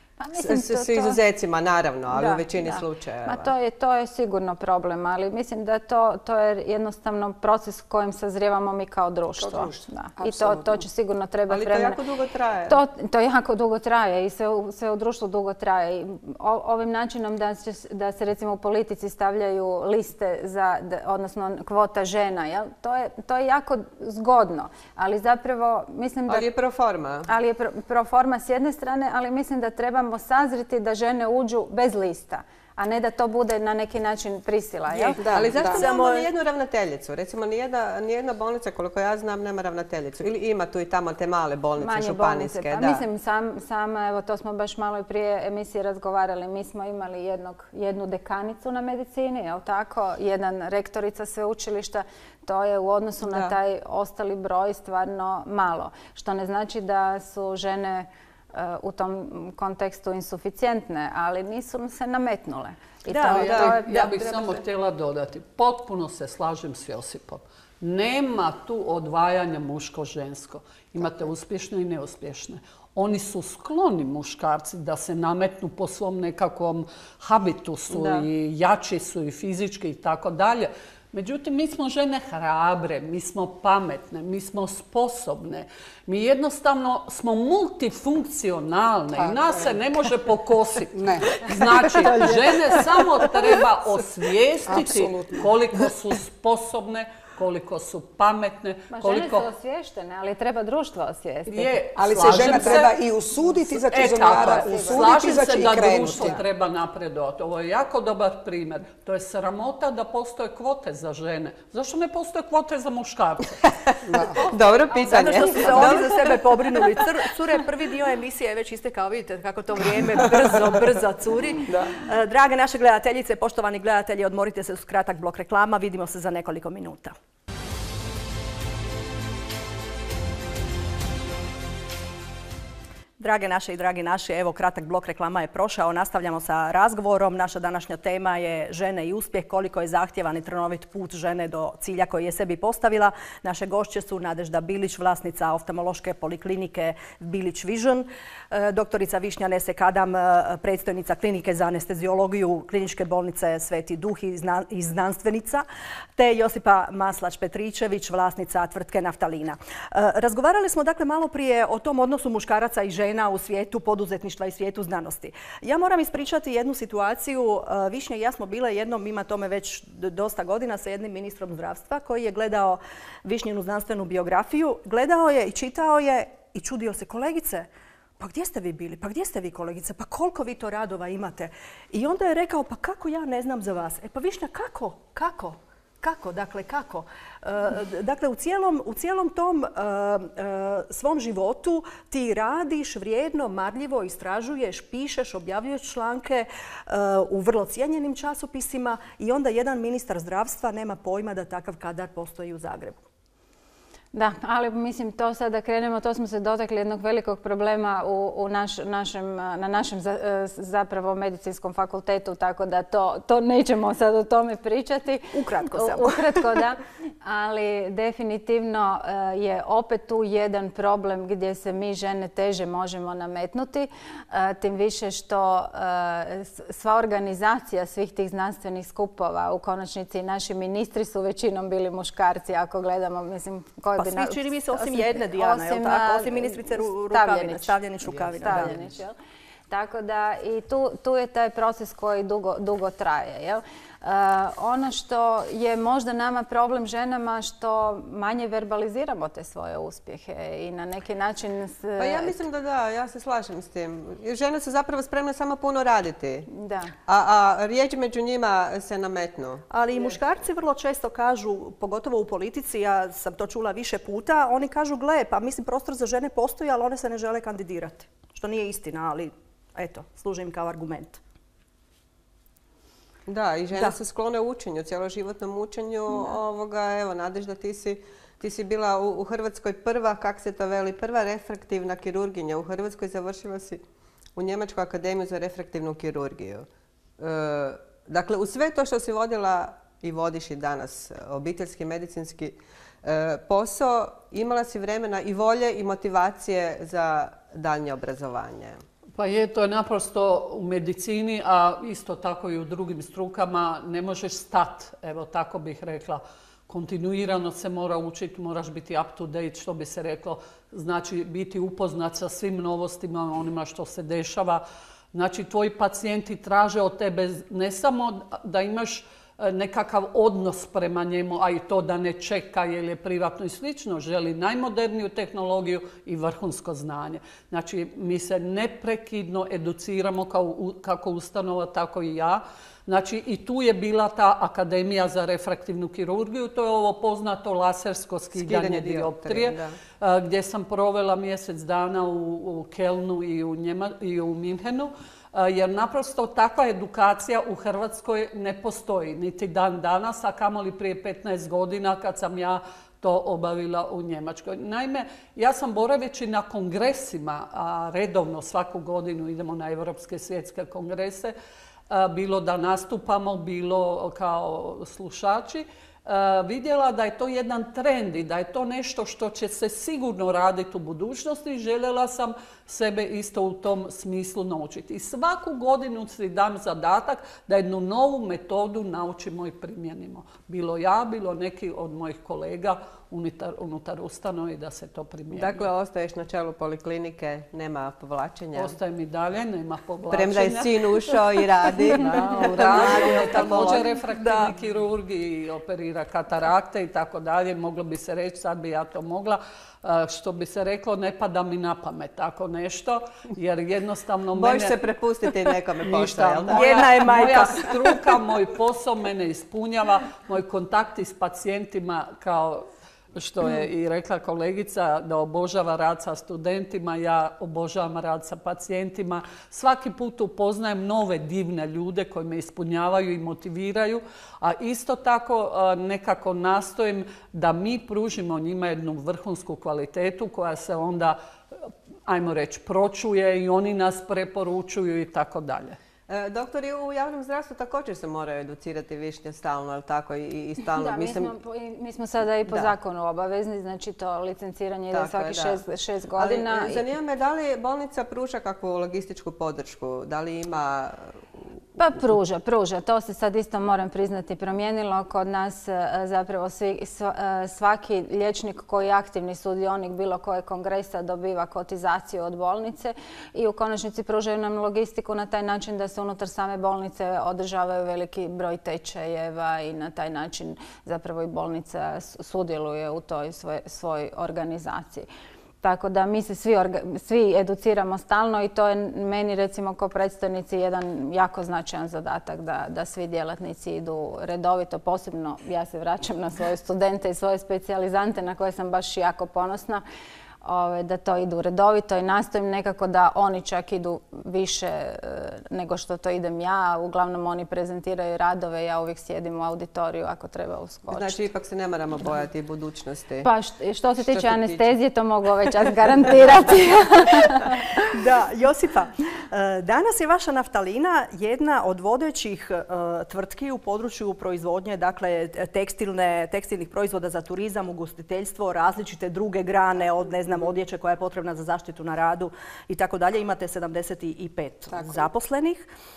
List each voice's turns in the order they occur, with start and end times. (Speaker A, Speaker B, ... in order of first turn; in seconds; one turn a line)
Speaker A: 0.2-1.2
Speaker B: 0.3-3.5
Speaker A: 2.1-12.0
Speaker C: 9.4-10.8
Speaker B: 11.5-12.8
Speaker A: 12.7-26.5
Speaker B: 26.3-27.3
Speaker A: 27.3-35.2
Speaker D: 34.9-36.3
Speaker C: 35.2-35.9
Speaker B: 35.3-43.0
Speaker A: 41.8-64.1
Speaker B: 53.3-53.5
Speaker D: 63.1-64.6
Speaker B: 63.4-63.7
Speaker E: 63.5-99.5
Speaker B: 77.9-78.3
Speaker C: 89.1-89.8
Speaker C: 90.9-92.3
Speaker C: 94.7-95.5
Speaker A: 98.9-102.8
Speaker E: 101.5-103.0
Speaker C: 102.0-106.4
Speaker E: 103.7-113.6
Speaker A: 104.4-105.3
Speaker B: 113.9-116.4
Speaker C: 114.1-114.4
Speaker A: 114.3-116.1
Speaker D: 115.1-127.2
Speaker C: 121.7-122.0
Speaker D: 133.2-177.7
Speaker D: 178.2-203.0
Speaker A: 204.1-237.8
Speaker D: 215.3-216.5
Speaker D: 234.0-238.8
Speaker A: 238.3-239.1
Speaker A: 239.7-252.5
Speaker B: 252.0-256.5
Speaker A: 256.5-256.9
Speaker B: 257.1-259.7
Speaker D: 259.7-271.2
Speaker B: 273.3-283.8
Speaker B: 284.4-286.7
Speaker B: 287.2-298.8
Speaker E: 299.2-314.6
Speaker E: 315.1-361.3
Speaker B: 338.4-339.8
Speaker E: 361.9-385.7
Speaker B: 385.3-388.7
Speaker E: 388.6-404.8
Speaker B: 390.1-393.9
Speaker D: 392.7-394.5
Speaker B: 404.4-406.9
Speaker E: 405.9-431.2
Speaker D: 406.5-408.1
Speaker E: 432.1-435.8
Speaker B: 436.1-441.3
Speaker A: 440.7-446.8
Speaker B: 444.9-445.6
Speaker B: 446.2-451.2
Speaker A: 451.8-475.1
Speaker A: 475.6-489.8
Speaker A: 490.4-501.3
Speaker B: 500.9-503.3
Speaker A: 503.2-507.6
Speaker B: 504.1-504.6
Speaker D: 507.8-525.7